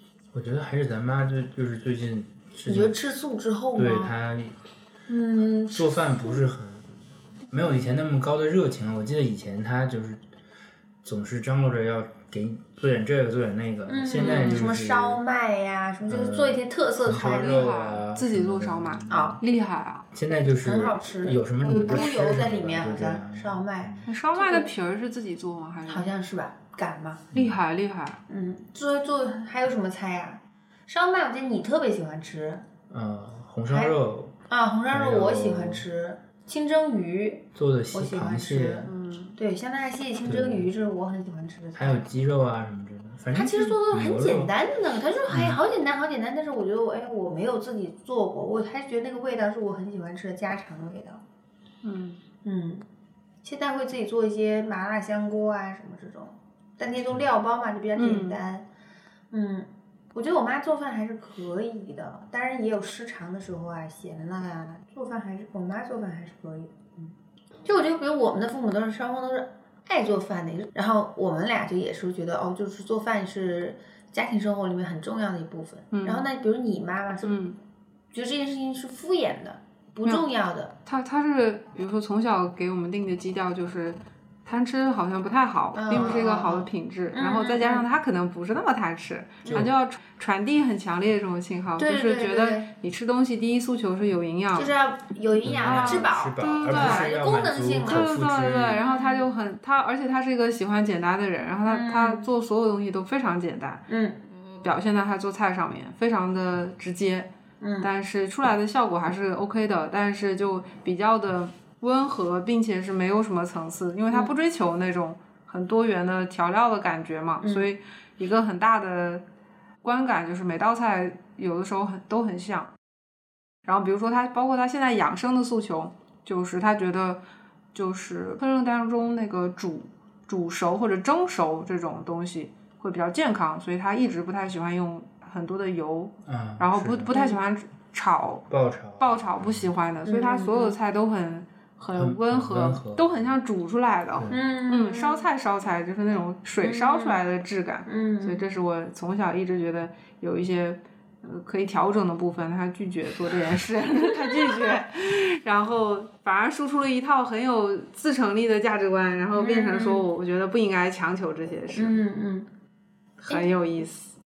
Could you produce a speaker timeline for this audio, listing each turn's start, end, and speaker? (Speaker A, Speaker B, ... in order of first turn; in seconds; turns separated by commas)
Speaker A: 0.3-3.0, Speaker B: 2.7-4.1, Speaker A: 3.8-4.6, Speaker B: 5.1-6.4, Speaker A: 5.7-6.9, Speaker A: 7.5-10.2, Speaker A: 11.0-15.2, Speaker B: 13.9-17.7, Speaker C: 14.2-14.6, Speaker A: 16.1-19.4, Speaker C: 17.3-20.1, Speaker B: 19.1-19.4, Speaker A: 20.1-24.1, Speaker B: 20.6-24.7, Speaker C: 24.1-26.1, Speaker B: 25.9-27.3, Speaker A: 27.3-27.6, Speaker C: 27.3-28.2, Speaker B: 28.3-32.6, Speaker A: 32.9-34.4, Speaker B: 33.7-34.0, Speaker B: 34.5-42.1, Speaker A: 34.9-35.9, Speaker A: 37.5-38.9, Speaker C: 38.9-39.4, Speaker A: 40.3-40.7, Speaker A: 41.8-44.5, Speaker B: 43.3-51.2, Speaker A: 45.3-45.6, Speaker C: 51.8-52.2, Speaker B: 52.4-52.8, Speaker B: 53.4-58.7, Speaker C: 58.0-58.4, Speaker B: 59.3-67.1, Speaker B: 67.7-77.5, Speaker C: 75.9-76.3, Speaker C: 77.3-77.6, Speaker B: 78.1-80.7, Speaker C: 80.9-94.7, Speaker B: 85.7-87.9, Speaker A: 89.5-89.7, Speaker B: 91.8-92.7, Speaker B: 94.5-98.1, Speaker A: 95.4-98.8, Speaker C: 95.6-97.1, Speaker C: 97.8-107.3, Speaker B: 98.8-99.3, Speaker B: 101.7-102.3, Speaker B: 103.9-104.2, Speaker B: 107.6-107.9, Speaker C: 107.8-119.2, Speaker B: 117.4-117.7, Speaker C: 119.8-122.7, Speaker C: 123.7-127.2, Speaker C: 127.7-138.5, Speaker A: 136.3-137.1, Speaker B: 137.1-137.4, Speaker A: 138.5-139.7, Speaker C: 139.0-162.0, Speaker B: 140.1-140.8, Speaker A: 141.9-143.4, Speaker B: 144.3-145.3, Speaker B: 146.6-147.2, Speaker B: 147.9-148.4, Speaker B: 159.3-160.1, Speaker B: 161.7-162.5, Speaker C: 163.2-164.1